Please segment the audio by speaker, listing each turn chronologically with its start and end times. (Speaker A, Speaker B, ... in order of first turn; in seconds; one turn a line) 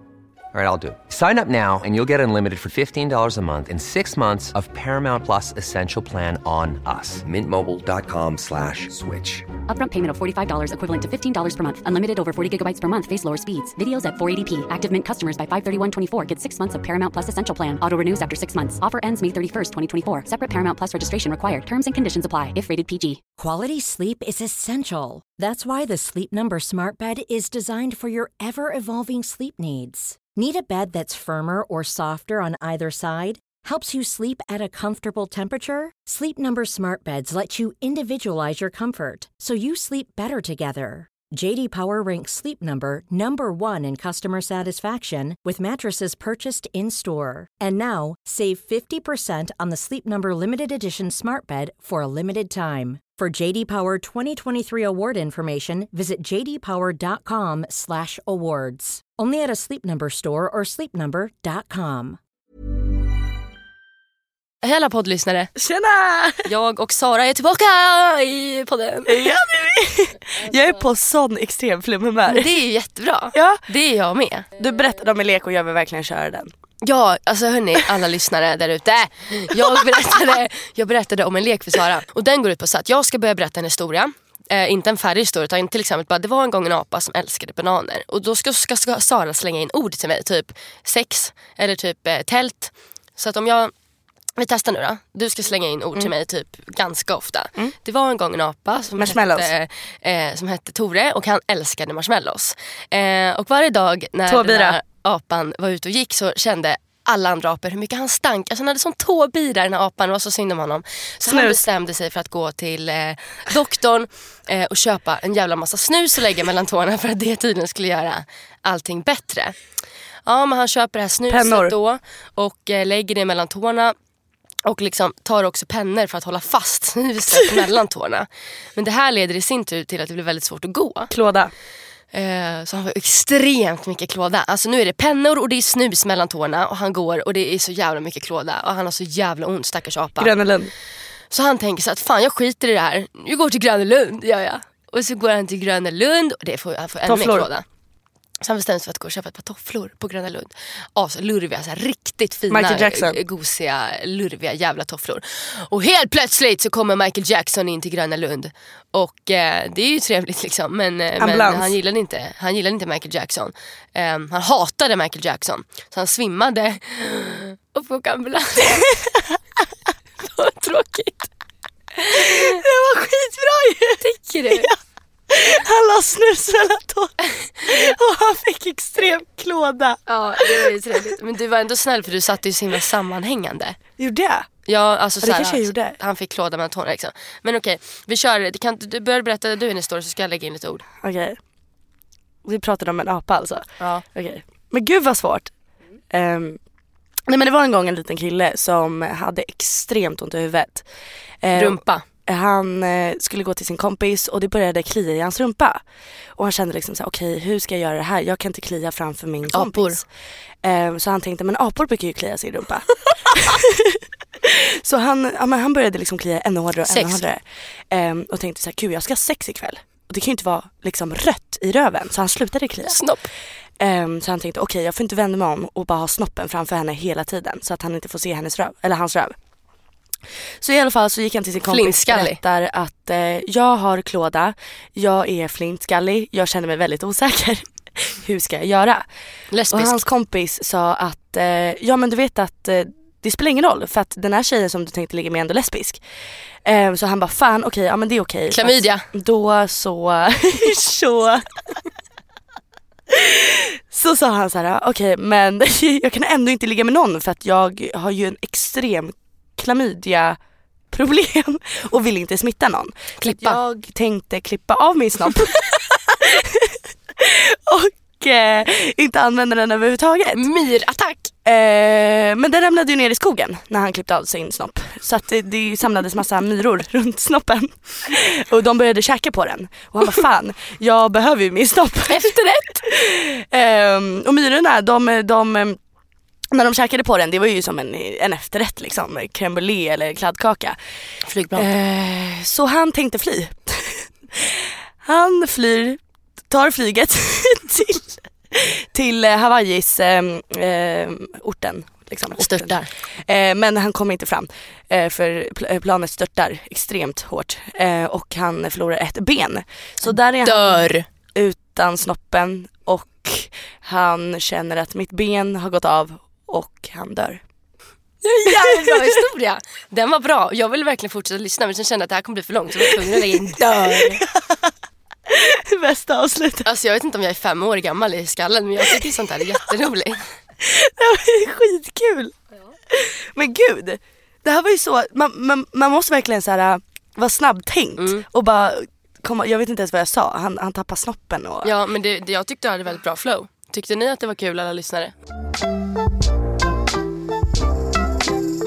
Speaker A: 0.5-9.5
Speaker B: 9.7-23.2
Speaker C: 23.4-62.2
Speaker D: 64.6-65.5
Speaker E: 65.6-66.5
Speaker D: 66.5-69.3
Speaker E: 69.0-72.5
Speaker D: 72.3-74.5
Speaker E: 73.3-73.6
Speaker E: 74.6-76.5
Speaker D: 76.8-93.7
Speaker E: 79.5-80.3
Speaker D: 94.4-119.5
Speaker E: 99.0-99.5
Speaker E: 104.3-104.8
Speaker E: 111.2-111.6
Speaker D: 120.2-123.9
Speaker E: 121.3-121.7
Speaker D: 124.6-131.1
Speaker E: 131.1-131.5
Speaker D: 132.1-140.3
Speaker E: 140.2-140.7
Speaker D: 141.3-147.6
Speaker E: 147.1-147.5
Speaker D: 148.4-168.9
Speaker E: 152.5-153.2
Speaker E: 161.2-161.7
Speaker E: 168.8-169.4
Speaker D: 170.2-171.3
Speaker D: 172.0-172.6
Speaker E: 172.1-174.8
Speaker D: 174.0-174.7
Speaker E: 175.3-181.0
Speaker D: 177.6-177.9
Speaker D: 180.1-183.8
Speaker E: 184.0-184.5
Speaker D: 184.7-190.8
Speaker E: 185.2-185.9
Speaker E: 191.0-191.4
Speaker E: 192.4-195.5
Speaker E: 196.1-196.6
Speaker E: 197.3-200.8
Speaker E: 201.4-205.8
Speaker D: 201.5-202.0
Speaker E: 206.3-210.1
Speaker D: 209.5-210.0
Speaker E: 210.6-223.0
Speaker D: 216.8-217.2
Speaker D: 222.9-223.3
Speaker E: 223.8-229.4
Speaker E: 230.6-239.1
Speaker D: 231.7-232.4
Speaker D: 239.5-240.0
Speaker E: 239.7-246.0
Speaker E: 246.6-251.8
Speaker D: 248.5-249.0
Speaker E: 253.1-260.4
Speaker E: 260.9-270.4
Speaker D: 263.2-263.6
Speaker D: 270.3-271.3
Speaker E: 271.4-282.3
Speaker D: 282.1-282.9
Speaker E: 282.8-285.8
Speaker E: 286.5-290.8
Speaker D: 291.3-291.7
Speaker E: 291.5-317.4
Speaker D: 302.4-302.9
Speaker D: 310.4-311.0
Speaker D: 318.2-324.2
Speaker E: 318.4-319.2
Speaker E: 322.8-324.7
Speaker E: 325.3-326.7
Speaker D: 326.6-330.3
Speaker E: 328.8-329.6
Speaker E: 330.6-332.4
Speaker E: 332.9-341.7
Speaker D: 338.0-338.2
Speaker D: 341.6-345.1